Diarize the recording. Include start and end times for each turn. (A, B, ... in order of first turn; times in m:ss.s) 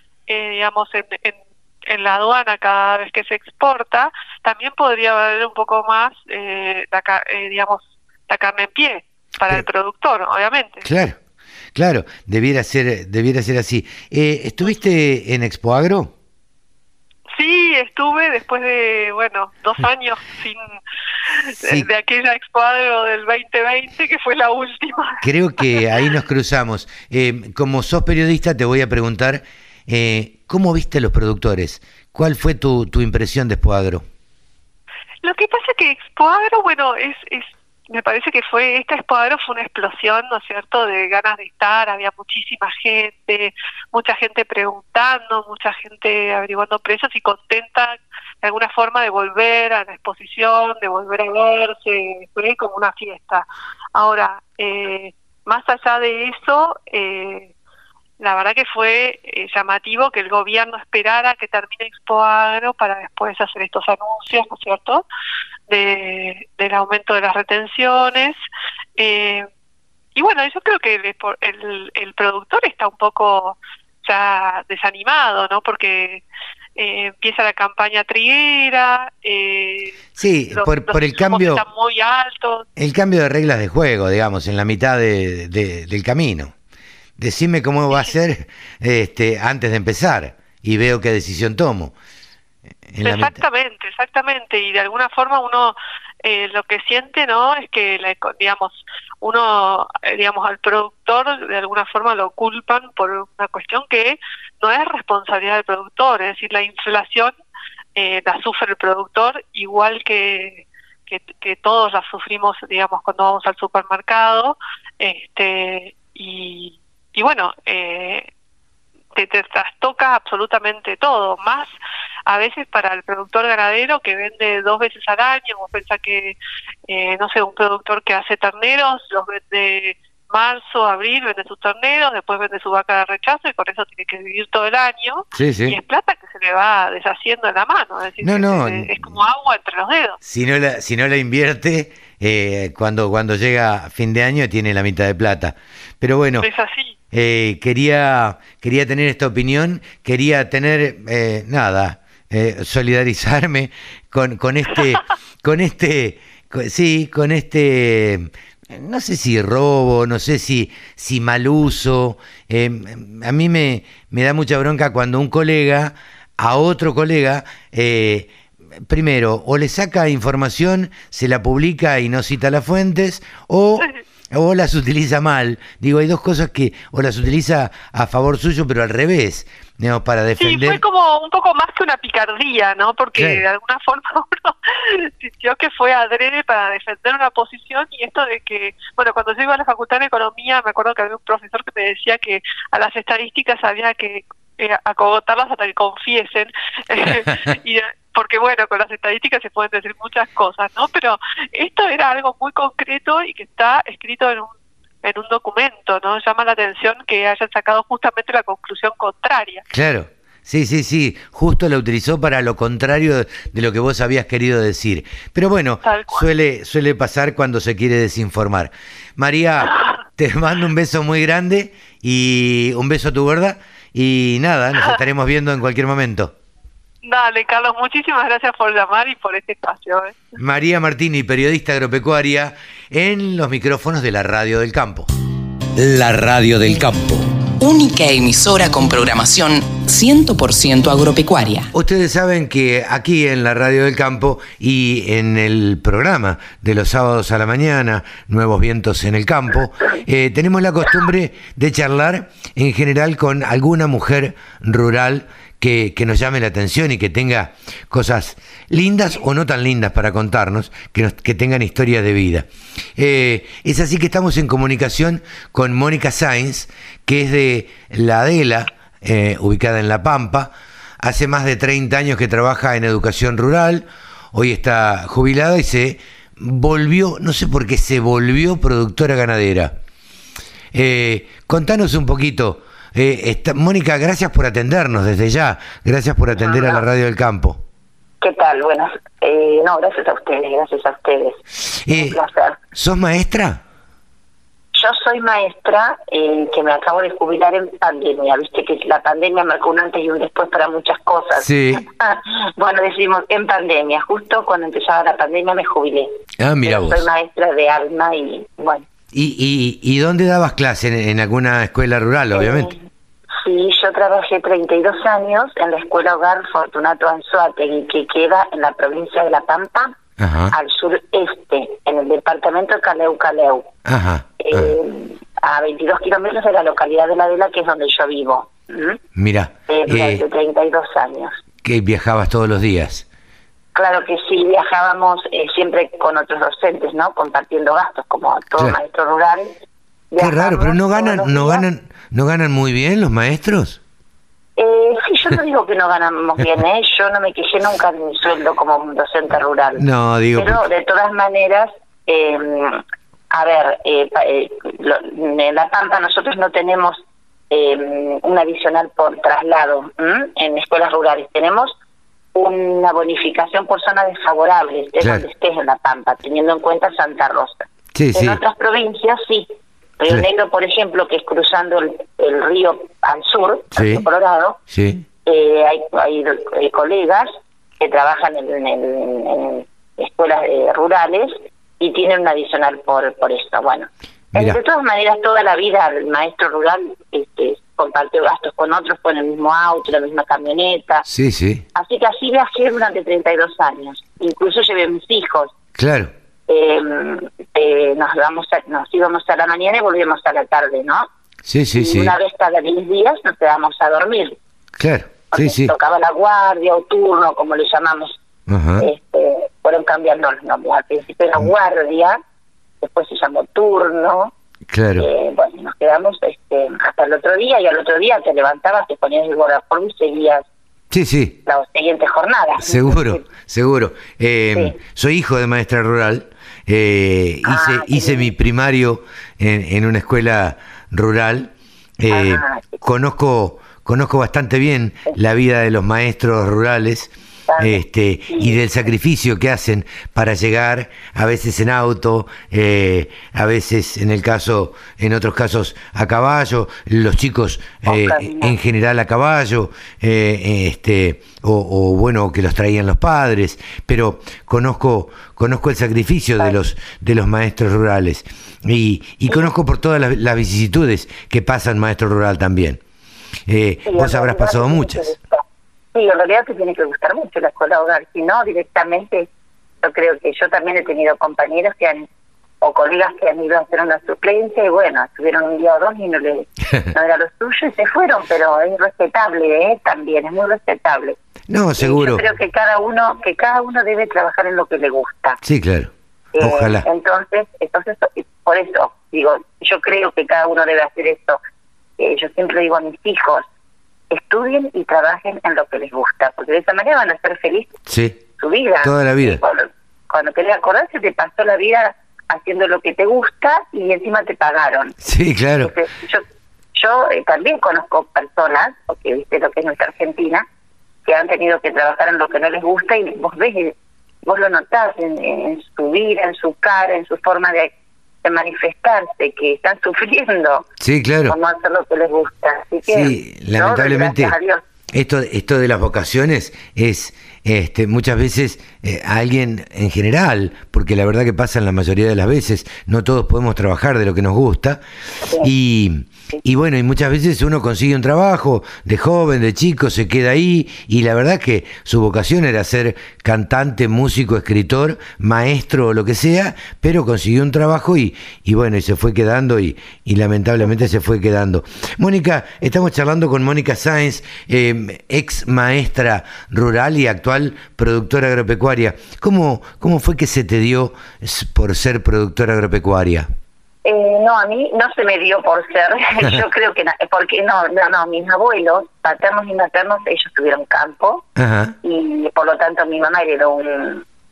0:00.3-0:10.8 A
0:10.8-0:11.2 B
0:11.7-0:16.1 B
0:17.3-0:20.6 A
0:21.5-0:25.2 A
0:21.6-0:21.9 B
0:25.2-0:34.0 B
0:35.2-0:57.5 A
0:58.2-1:05.0 A
1:05.7-1:08.4 A
1:09.0-1:09.4 A
1:10.1-1:16.2 A
1:16.8-1:20.0 A
1:20.2-1:21.6 B
1:20.5-1:22.6 A
1:22.8-1:26.5 B
1:27.2-1:31.9 B
1:32.9-1:33.4 B
1:33.0-1:47.3 A
1:48.0-1:58.3 A
1:59.1-2:01.7 A
2:02.2-2:06.3 A
2:06.9-2:20.2 A
2:15.4-2:15.8 B
2:18.2-2:19.1 B
2:20.2-2:26.5 B
2:26.4-2:26.9 A
2:27.1-2:48.3 B
2:48.8-3:00.8 B
3:00.4-3:24.5 A
3:03.2-3:03.4 B
3:25.0-3:29.6 A
3:29.7-3:46.3 B
3:35.8-3:36.2 A
3:47.0-3:50.2 A
3:50.4-3:55.1 B
3:55.7-3:57.3 B
3:57.6-4:01.7 C
4:01.7-4:39.8 B
4:40.7-4:47.6 B
4:46.4-4:46.8 D
4:48.2-4:52.6 D
4:51.9-4:52.2 B
4:52.7-4:53.6 B
4:54.7-5:06.1 D
5:01.4-5:01.8 B
5:06.4-5:07.0 B
5:06.6-5:08.8 D
5:09.1-5:12.7 B
5:12.3-5:12.8 D
5:13.4-5:19.9 D
5:20.2-5:20.5 B
5:20.5-5:23.7 D
5:23.8-5:24.8 B
5:24.4-5:29.0 D
5:29.2-5:30.2 B
5:29.7-5:31.4 D
5:31.6-5:33.0 B
5:33.7-5:39.5 D
5:40.1-5:41.6 D
5:40.2-5:43.8 B
5:44.6-5:49.8 D
5:49.8-5:50.6 B
5:50.4-5:57.0 D
5:57.5-6:01.7 D
6:02.3-6:09.5 D
6:05.0-6:05.2 B
6:07.9-6:08.4 B
6:10.0-6:14.6 D
6:13.7-6:14.0 B
6:14.7-6:15.0 B
6:15.2-6:17.3 D
6:17.8-6:31.0 D
6:24.3-6:24.6 B
6:31.0-6:31.6 B
6:31.7-6:35.5 D
6:35.8-6:36.1 B
6:36.5-6:41.1 D
6:41.4-6:42.2 B
6:41.7-6:44.4 D
6:44.8-6:45.7 B
6:45.3-6:48.2 D
6:48.5-6:48.9 B
6:48.8-6:52.2 D
6:52.8-6:54.3 D
6:54.7-6:55.1 B
6:55.0-7:00.4 D
7:00.9-7:01.3 B
7:01.4-7:03.2 D
7:02.6-7:42.8 B
7:07.4-7:08.3 D
7:12.1-7:12.8 D
7:17.5-7:18.6 D
7:27.8-7:28.6 D
7:43.5-7:45.0 B
7:43.8-7:45.4 D
7:45.9-7:49.3 D
7:49.8-7:52.1 D
7:52.6-8:01.2 D
8:01.5-8:02.2 B
8:01.8-8:05.4 D
8:05.4-8:06.8 B
8:06.3-8:11.4 D
8:12.0-8:13.4 D
8:14.1-8:17.8 D
8:17.9-8:18.2 B
8:18.4-8:25.0 D
8:18.8-8:19.4 B
8:25.0-8:25.7 B
8:25.6-8:30.4 D
8:31.0-8:33.7 D
8:34.2-8:37.7 D
8:38.2-8:40.7 D
8:40.8-8:41.4 B
8:41.2-8:44.6 D
8:42.8-8:44.3 B
8:44.9-8:54.8 B
8:55.4-9:23.3 B
9:23.8-9:31.2 D
9:31.4-9:31.8 B
9:31.8-9:34.0 D